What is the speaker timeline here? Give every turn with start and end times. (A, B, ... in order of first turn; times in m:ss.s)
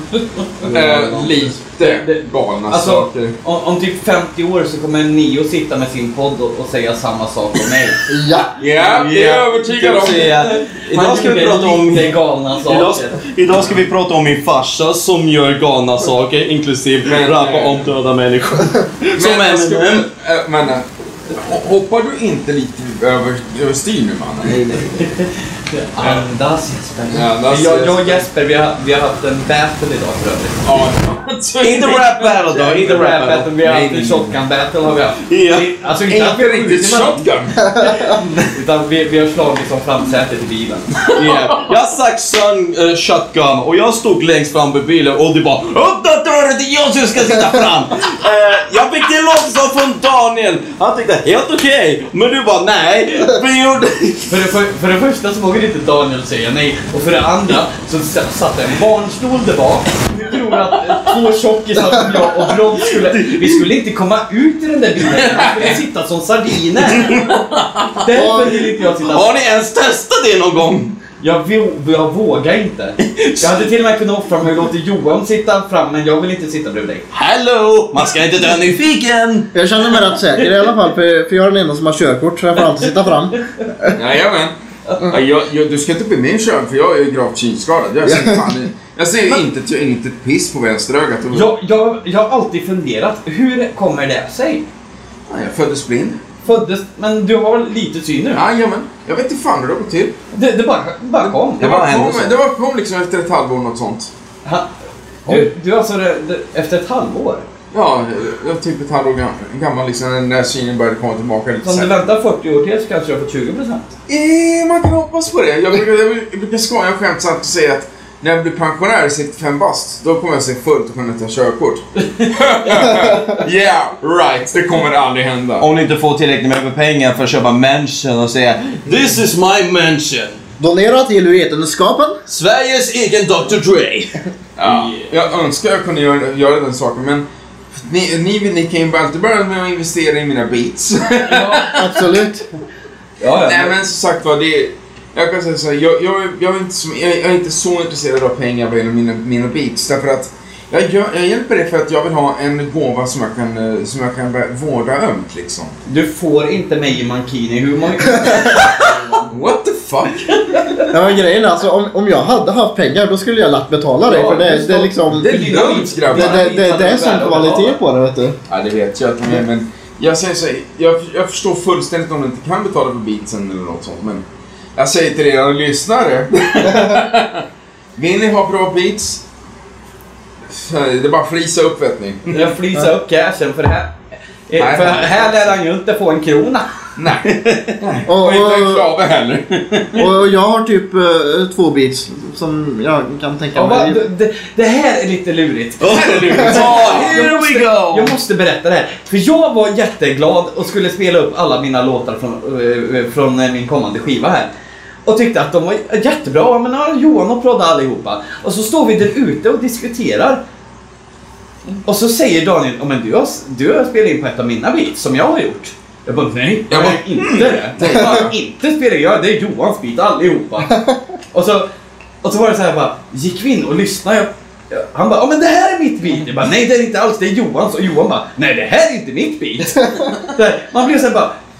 0:00.2-0:01.2 A
0:00.6-0:03.3 B
0:00.6-0:01.3 C
0:01.8-0:08.1 A
0:08.1-0:08.5 D
0:08.6-0:10.4 B
0:08.8-0:20.0 C
0:10.0-0:13.2 A
0:17.0-0:17.9 B
0:19.2-0:25.0 B
0:25.0-0:30.7 A
0:27.1-0:28.2 B
0:30.6-0:32.3 B
0:31.6-0:34.4 C
0:32.4-0:37.2 A
0:35.2-0:35.7 C
0:36.1-0:37.7 B
0:37.7-0:38.0 D
0:37.8-0:40.9 A
0:41.1-0:54.4 C
0:41.2-0:41.6 B
0:54.3-1:07.2 A
1:02.1-1:03.7 C
1:05.3-1:05.7 B
1:06.8-1:11.0 C
1:08.0-1:09.4 A
1:08.1-1:08.4 D
1:11.2-1:17.1 A
1:13.0-1:13.7 C
1:17.1-1:20.2 C
1:19.5-1:23.9 D
1:23.9-1:31.5 B
1:28.0-1:28.5 D
1:31.3-1:34.6 A
1:35.3-1:36.2 B
1:36.4-1:38.4 A
1:38.3-1:40.1 B
1:40.3-1:42.0 A
1:41.2-1:44.1 B
1:41.6-1:42.3 C
1:44.4-1:44.7 A
1:45.2-1:47.4 A
1:47.7-1:52.0 B
1:51.6-1:53.9 A
1:54.1-2:05.7 B
2:05.6-2:10.4 C
2:10.6-2:12.2 D
2:12.3-2:14.1 C
2:14.6-2:17.2 B
2:14.6-2:15.1 A
2:17.8-2:22.0 B
2:21.2-2:21.8 A
2:21.7-2:22.4 D
2:23.2-2:23.7 A
2:23.5-2:35.7 B
2:35.8-2:39.2 A
2:39.3-2:40.6 B
2:40.5-2:40.8 A
2:40.9-2:45.3 D
2:44.1-2:47.8 A
2:45.1-2:46.5 B
2:46.1-2:48.4 D
2:48.5-2:54.2 B
2:54.8-2:57.4 B
2:58.0-2:59.2 B
3:00.5-3:02.4 B
3:02.3-3:03.9 A
3:04.5-3:06.7 A
3:04.6-3:05.5 B
3:07.0-3:10.0 B
3:07.3-3:07.7 C
3:08.1-3:08.9 D
3:09.9-3:14.0 D
3:13.5-3:24.5 A
3:15.8-3:18.1 C
3:15.9-3:17.2 B
3:25.0-3:30.4 A
3:31.8-3:40.8 A
3:36.7-3:38.3 B
3:41.3-3:41.7 A
3:42.2-3:51.4 A